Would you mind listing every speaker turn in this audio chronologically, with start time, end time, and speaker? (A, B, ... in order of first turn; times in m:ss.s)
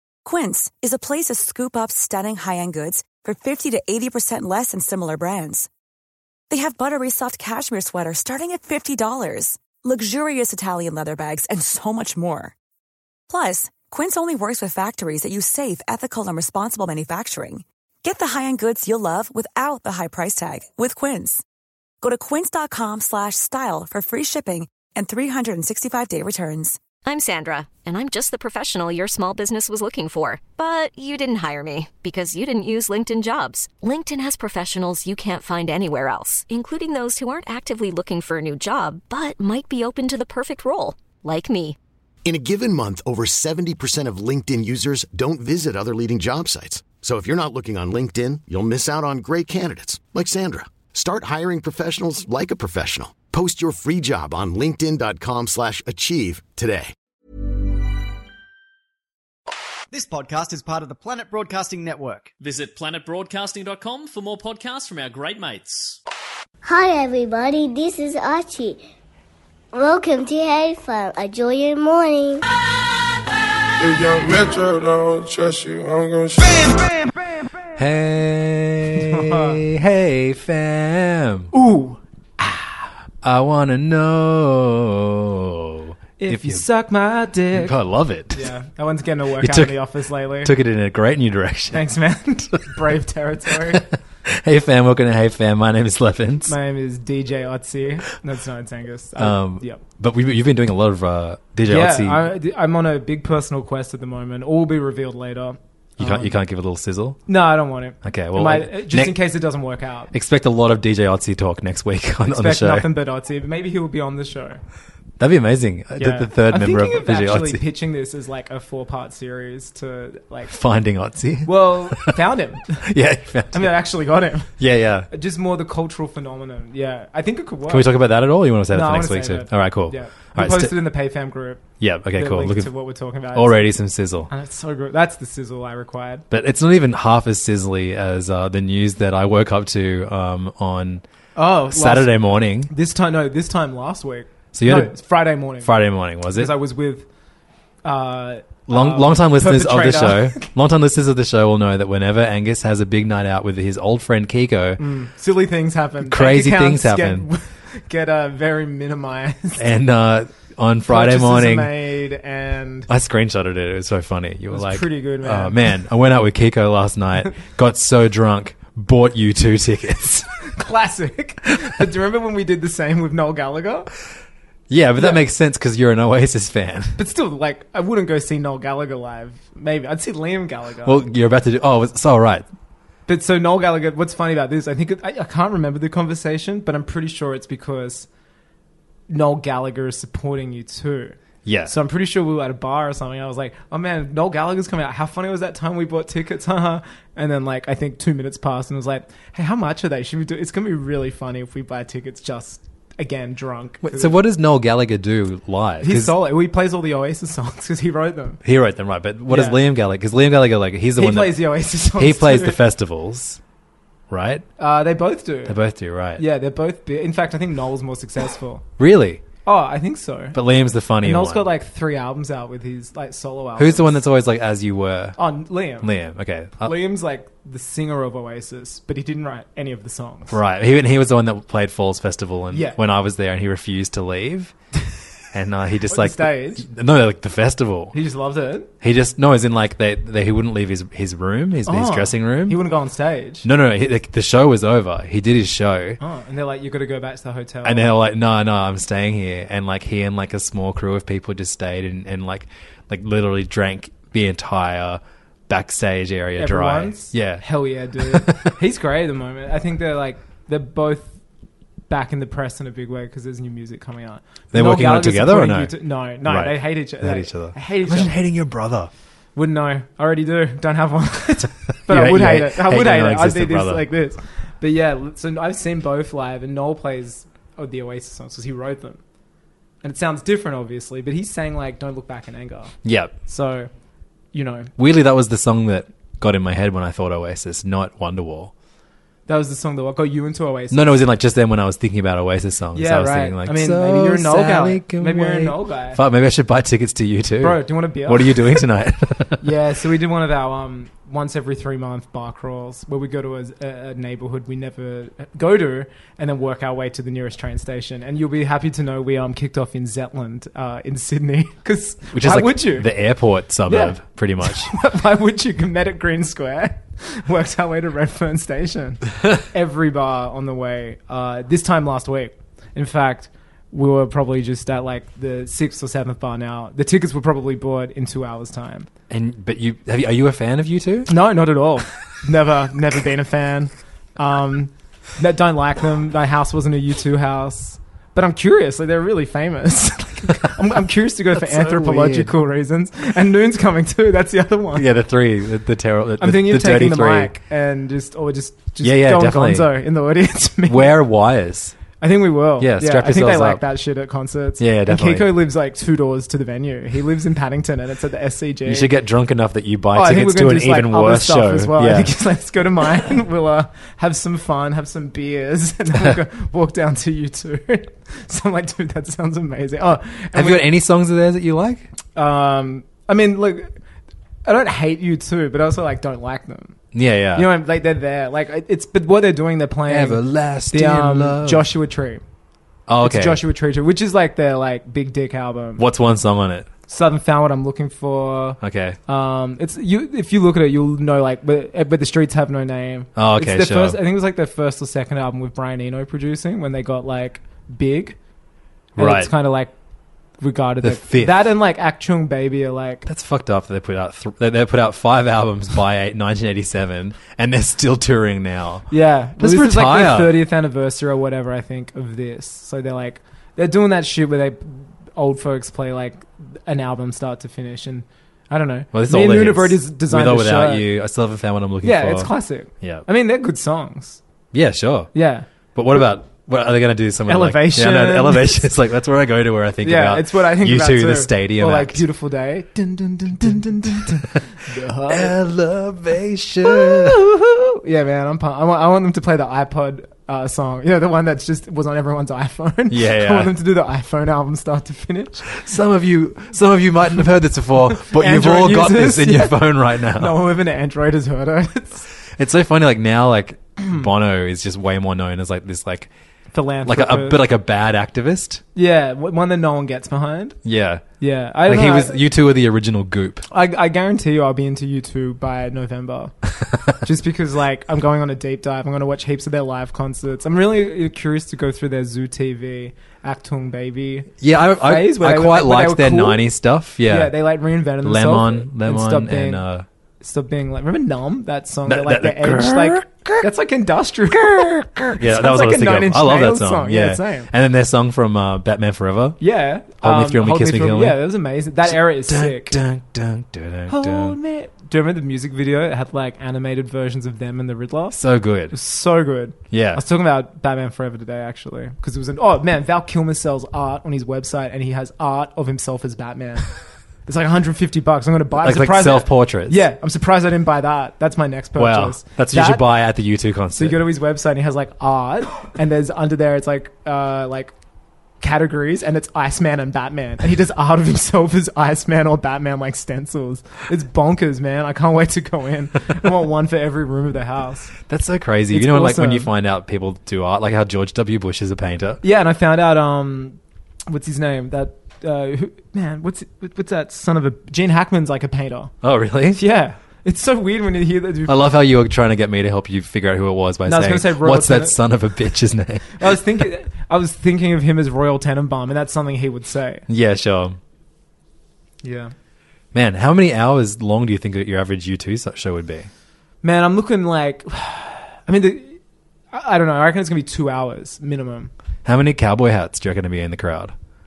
0:00.2-0:05.7 A
0:06.5-0:12.5 A
0:13.3-0:21.4 A
0:22.0-0:26.8 A
0:27.0-0:41.8 B
0:42.2-0:56.9 C
0:59.9-1:02.3 D
1:02.4-1:06.0 E
1:06.6-1:08.8 F
1:09.7-1:12.4 F
1:13.8-1:16.9 G
1:17.8-1:21.5 H
1:19.0-1:19.6 I
1:21.5-1:22.8 I
1:23.2-1:26.6 H
1:26.2-1:27.8 I
1:27.5-1:28.5 H
1:28.3-1:30.5 I
1:29.4-1:29.8 H
1:30.4-1:31.8 H
1:31.7-1:33.9 I
1:33.7-1:36.6 H
1:36.5-1:39.8 I
1:39.2-1:42.3 H
1:41.7-1:46.3 I
1:46.0-1:47.2 H
1:47.3-1:50.1 I
1:48.0-1:49.2 H
1:50.1-1:52.9 H
1:52.2-1:54.6 I
1:55.2-1:57.6 H
1:56.0-2:00.5 I
2:00.5-2:02.2 H
2:01.4-2:02.8 I
2:02.8-2:03.7 H
2:03.5-2:04.5 I
2:04.6-2:05.1 H
2:05.1-2:07.9 I
2:07.7-2:10.8 H
2:08.7-2:11.6 I
2:11.8-2:12.7 H
2:12.1-2:13.7 I
2:13.3-2:14.3 H
2:14.3-2:16.2 I
2:16.3-2:21.0 H
2:21.4-2:25.7 I
2:21.7-2:22.7 H
2:24.5-2:25.0 H
2:25.6-2:26.5 H
2:26.3-2:27.1 I
2:27.8-2:30.5 I
2:28.7-2:34.8 H
2:34.8-2:39.7 I
2:36.0-2:37.3 H
2:39.6-2:41.8 H
2:40.9-2:42.9 I
2:42.9-2:50.3 H
2:44.5-2:45.6 I
2:50.5-2:53.9 I
2:54.7-2:57.0 H
2:57.0-3:01.1 I
3:00.8-3:02.4 H
3:03.1-3:08.1 I
3:09.1-3:24.2 I
3:11.4-3:11.7 H
3:23.8-3:26.2 H
3:25.8-3:28.4 I
3:28.4-3:33.4 H
3:29.3-3:29.6 I
3:31.0-3:32.6 I
3:34.1-3:34.4 H
3:34.6-3:35.6 I
3:35.4-3:36.2 H
3:36.2-3:38.6 I
3:38.8-3:39.2 H
3:39.4-3:40.4 I
3:40.3-3:41.5 H
3:41.0-3:44.0 I
3:43.6-3:45.2 H
3:45.2-3:45.9 I
3:45.8-3:46.8 H
3:46.6-3:50.4 I
3:50.3-3:54.5 H
3:52.5-3:52.8 I
3:55.3-3:58.0 H
3:55.9-3:56.6 I
3:57.9-3:58.7 I
3:58.8-4:02.6 H
4:01.6-4:03.4 I
4:03.4-4:06.0 H
4:06.0-4:07.9 I
4:07.6-4:17.4 H
4:16.4-4:21.1 I
4:18.0-4:18.6 H
4:21.9-4:28.2 I
4:24.5-4:28.9 H
4:29.3-4:39.0 I
4:31.9-4:33.8 H
4:39.8-4:42.7 I
4:42.8-4:43.2 H
4:43.2-4:43.7 I
4:44.3-4:44.7 I
4:44.8-4:48.5 H
4:49.3-4:50.8 I
4:50.7-4:59.4 H
4:52.7-4:56.0 I
4:57.4-4:58.6 I
4:59.4-5:12.9 I
5:12.1-5:14.7 H
5:13.7-5:28.9 I
5:29.1-5:31.1 H
5:31.1-5:44.9 I
5:41.4-5:42.3 H
5:44.7-5:47.3 H
5:46.2-5:51.0 I
5:48.8-5:49.7 H
5:50.7-5:51.8 H
5:52.0-5:58.9 I
5:52.6-5:53.6 H
5:54.6-5:55.4 H
5:58.6-6:02.1 H
5:59.9-6:10.7 I
6:10.3-6:11.9 H
6:12.2-6:13.8 I
6:14.4-6:16.8 I
6:16.9-6:17.5 H
6:17.3-6:22.2 I
6:19.9-6:21.6 H
6:22.9-6:23.4 H
6:23.0-6:25.8 I
6:25.8-6:26.7 H
6:26.9-6:38.2 I
6:28.6-6:29.0 H
6:33.2-6:34.0 H
6:39.0-6:39.3 H
6:39.0-6:39.7 I
6:40.4-6:43.1 I
6:40.8-6:41.5 H
6:43.0-6:50.4 H
6:48.9-7:00.9 I
6:58.9-7:03.0 H
7:01.8-7:04.2 I
7:04.5-7:05.1 H
7:05.1-7:05.5 I
7:05.7-7:12.0 H
7:07.3-7:08.7 I
7:09.8-7:15.3 I
7:13.4-7:14.4 H
7:15.1-7:17.2 H
7:16.6-7:25.5 I
7:22.9-7:23.5 H
7:25.5-7:30.4 H
7:27.9-7:32.0 I
7:32.3-7:36.1 H
7:36.5-7:37.4 I
7:36.8-7:38.6 H
7:38.7-7:40.6 I
7:40.6-7:41.0 H
7:41.2-7:42.1 I
7:41.6-7:43.4 H
7:43.5-7:46.3 I
7:47.0-7:54.3 I
7:54.4-7:57.4 H
7:54.8-7:56.4 I
7:57.1-7:59.6 I
7:58.0-7:59.8 H
8:00.2-8:07.5 I
8:01.8-8:03.4 H
8:05.2-8:09.4 H
8:09.4-8:12.8 I
8:10.0-8:11.2 H
8:11.8-8:14.4 H
8:13.9-8:18.2 I
8:18.1-8:18.7 H
8:18.7-8:26.7 I
8:19.7-8:20.0 H
8:27.2-8:32.8 I
8:28.6-8:29.8 H
8:31.8-8:34.0 H
8:33.8-8:37.7 I
8:38.4-8:47.9 I
8:48.1-8:52.2 H
8:48.7-8:49.5 I
8:52.2-8:58.9 I
8:59.0-8:59.6 H
8:59.5-9:01.6 I
9:01.5-9:06.3 H
9:03.8-9:05.0 I
9:06.1-9:10.0 I
9:10.1-9:10.8 H
9:12.0-9:12.3 I
9:12.9-9:16.1 H
9:16.6-9:19.0 I
9:19.5-9:21.7 I
9:22.0-9:23.9 H